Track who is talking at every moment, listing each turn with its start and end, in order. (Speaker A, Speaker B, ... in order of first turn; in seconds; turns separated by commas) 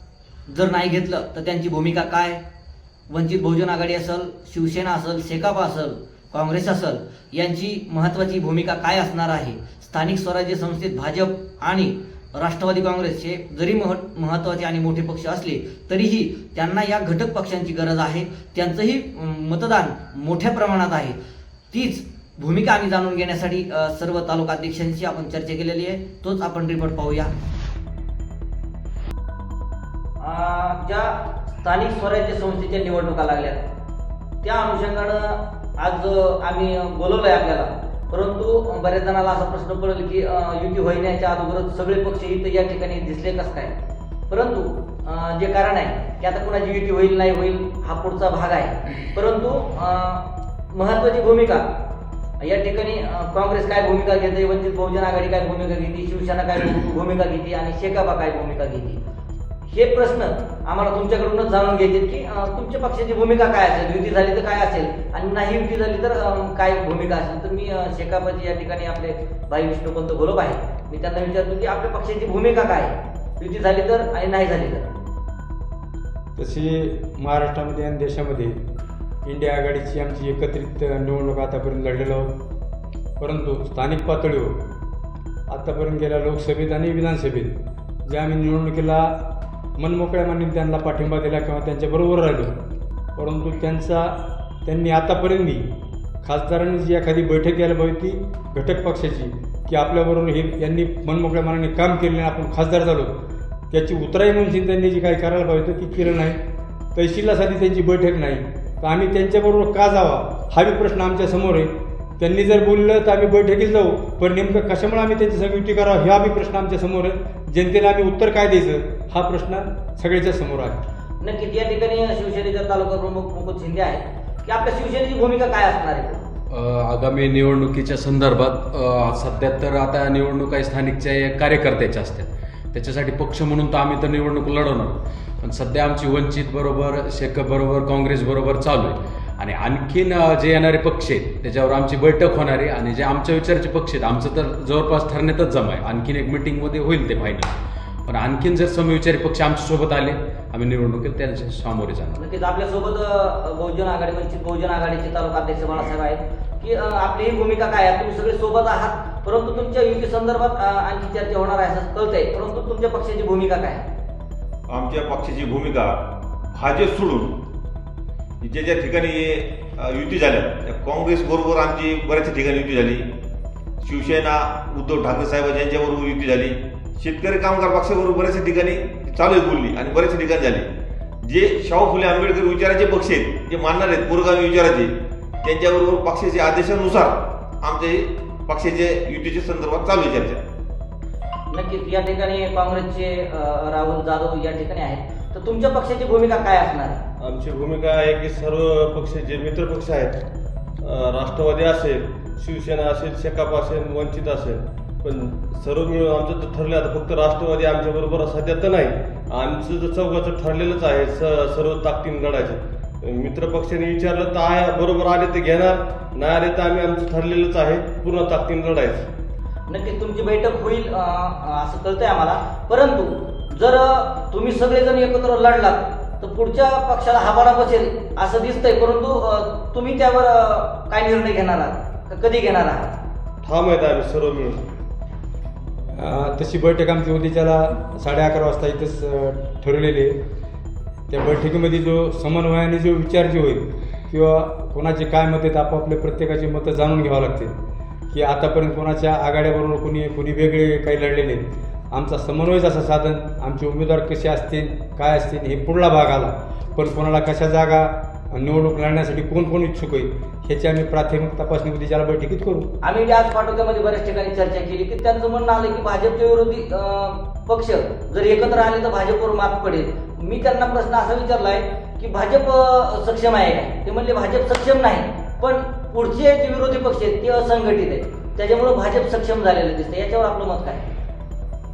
Speaker A: 0.5-2.4, Speaker A: 3.1-21.2, Speaker A: 21.7-27.3, Speaker A: 30.2-33.7, Speaker A: 34.4-43.8, Speaker A: 44.3-51.8, Speaker A: 52.4-59.0, Speaker A: 59.7-75.0, Speaker B: 76.4-78.6, Speaker B: 79.2-82.3, Speaker B: 83.2-84.6, Speaker B: 85.5-92.5, Speaker B: 93.2-95.7, Speaker B: 96.2-103.2, Speaker B: 103.7-106.4, Speaker B: 107.0-120.8, Speaker A: 121.2-126.3, Speaker C: 126.5-147.6, Speaker C: 148.1-152.2, Speaker A: 152.2-163.8, Speaker D: 164.7-166.0, Speaker D: 166.5-167.4, Speaker D: 168.4-173.1, Speaker D: 173.8-180.7, Speaker D: 181.2-190.4, Speaker A: 191.5-197.0, Speaker E: 197.2-200.2, Speaker E: 200.8-219.1, Speaker A: 219.7-232.9, Speaker E: 233.4-234.6, Speaker B: 235.9-240.2, Speaker B: 241.1-247.6, Speaker B: 248.1-262.7, Speaker A: 262.8-280.9